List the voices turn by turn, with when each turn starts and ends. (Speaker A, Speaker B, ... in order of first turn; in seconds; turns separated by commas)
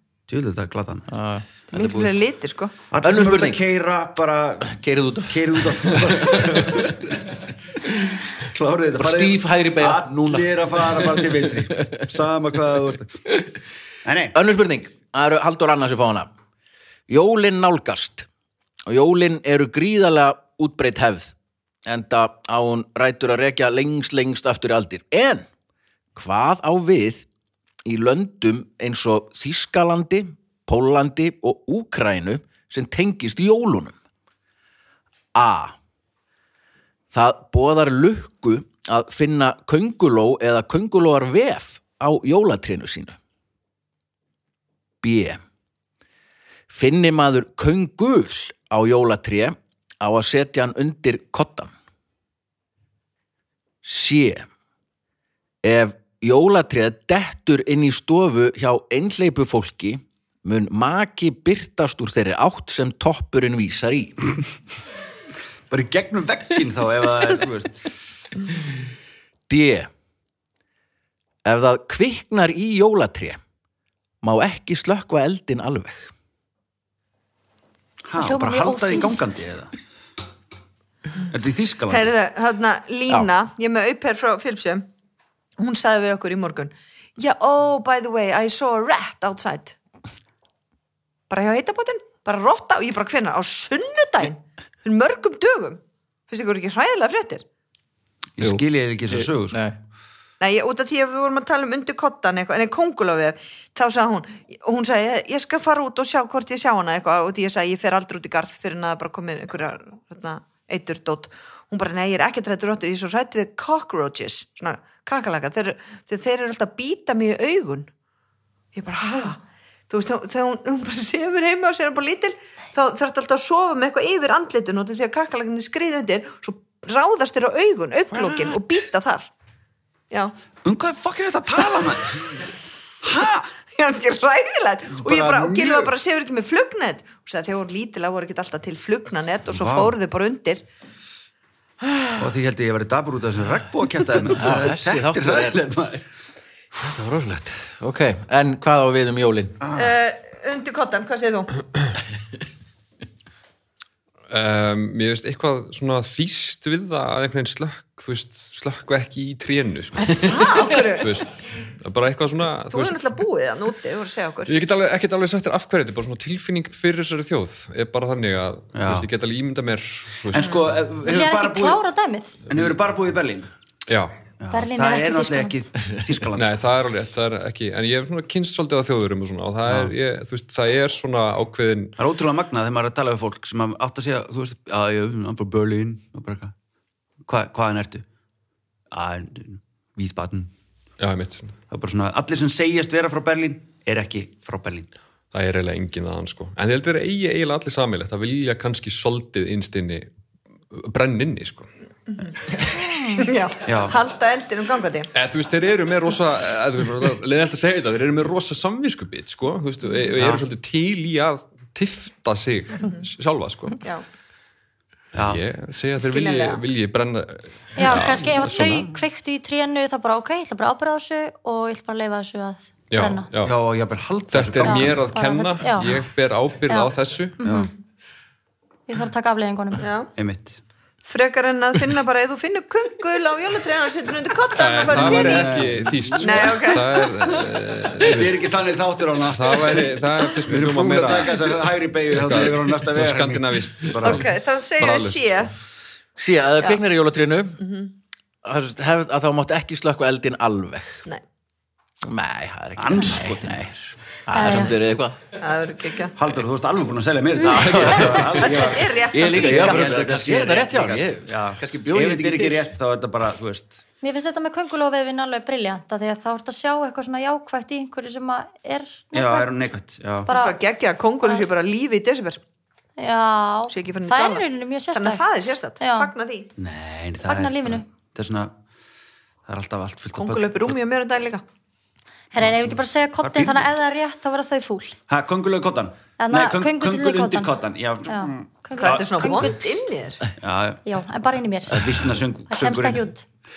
Speaker A: 0.3-1.1, Speaker B: 1.1-2.2, Speaker C: 1.7-2.8, Speaker A: 2.9-7.3, Speaker B: 3.0-3.6, Speaker B: 4.7-6.9, Speaker A: 8.4-13.2, Speaker B: 8.9-12.0, Speaker A: 14.0-14.3, Speaker B: 14.3-16.3, Speaker B: 17.1-18.3, Speaker B: 18.9-21.3, Speaker B: 21.8-25.5, Speaker B: 26.1-27.3, Speaker B: 27.8-33.9, Speaker B: 35.3-35.8, Speaker B: 37.1-43.2, Speaker B: 45.0-45.4, Speaker B: 46.7-51.7, Speaker B: 53.8-54.5, Speaker B: 55.6-64.2, Speaker A: 65.7-67.9, Speaker B: 69.5-69.9, Speaker B: 71.4-73.4, Speaker B: 74.2-76.1, Speaker A: 78.1-79.7, Speaker D: 78.1-79.2, Speaker A: 81.3-82.1, Speaker C: 81.9-84.9, Speaker C: 85.6-89.8, Speaker C: 91.3-97.4, Speaker A: 98.4-99.6, Speaker B: 99.1-99.8, Speaker C: 100.4-117.9, Speaker C: 118.7-129.3, Speaker C: 130.1-130.3, Speaker A: 130.6-132.4, Speaker A: 133.0-133.4, Speaker C: 133.5-140.6, Speaker A: 135.0-135.9, Speaker A: 139.5-139.9, Speaker C: 141.8-142.2, Speaker A: 142.2-146.0, Speaker B: 144.3-145.6, Speaker B: 146.8-149.6, Speaker A: 149.6-149.9, Speaker C: 149.7-151.5, Speaker E: 154.3-163.1, Speaker C: 160.2-161.2, Speaker C: 162.7-164.5, Speaker E: 164.4-170.7, Speaker A: 168.7-169.1, Speaker A: 170.3-171.8, Speaker D: 171.0-172.3, Speaker A: 172.5-173.5, Speaker E: 173.9-174.1, Speaker A: 174.4-176.6, Speaker D: 174.5-175.6, Speaker E: 176.3-182.0, Speaker A: 179.7-179.9, Speaker A: 182.0-186.5, Speaker A: 187.2-188.0, Speaker A: 188.9-190.5, Speaker E: 191.0-191.6, Speaker A: 191.7-194.9, Speaker E: 195.3-200.1, Speaker E: 200.7-201.7, Speaker C: 202.2-205.1, Speaker A: 203.6-203.9, Speaker E: 205.1-213.8, Speaker A: 210.2-210.4, Speaker A: 215.1-215.4, Speaker E: 215.2-218.9, Speaker C: 216.0-216.6, Speaker D: 217.8-223.3, Speaker E: 222.9-223.6, Speaker A: 223.4-225.1, Speaker E: 224.3-227.4, Speaker D: 224.6-226.0, Speaker D: 226.7-227.7, Speaker A: 227.4-227.7, Speaker D: 228.9-229.9, Speaker C: 229.8-230.1, Speaker A: 230.2-230.6, Speaker C: 231.1-235.7, Speaker E: 234.6-238.5, Speaker A: 234.8-244.3, Speaker C: 236.2-237.0, Speaker E: 239.2-245.5, Speaker C: 244.0-245.5, Speaker B: 246.2-247.6, Speaker C: 247.6-247.9, Speaker B: 248.4-251.1, Speaker B: 252.0-253.6, Speaker A: 252.8-253.9, Speaker B: 254.3-255.2, Speaker D: 254.3-254.8, Speaker C: 255.4-256.1, Speaker A: 256.1-263.8, Speaker B: 257.4-262.7, Speaker C: 258.4-259.9, Speaker D: 264.0-269.5, Speaker A: 269.1-270.3, Speaker D: 270.2-270.6, Speaker C: 270.3-272.4, Speaker D: 273.0-276.1, Speaker C: 273.7-276.5, Speaker A: 276.6-278.5, Speaker D: 277.2-277.9, Speaker A: 279.4-280.8, Speaker C: 280.1-281.4, Speaker D: 282.3-285.0, Speaker A: 282.4-283.7, Speaker A: 285.1-289.5, Speaker D: 286.2-287.5, Speaker D: 288.1-289.6, Speaker C: 288.8-290.3, Speaker A: 290.4-290.8, Speaker D: 290.8-291.9, Speaker A: 291.7-293.1, Speaker D: 292.5-293.2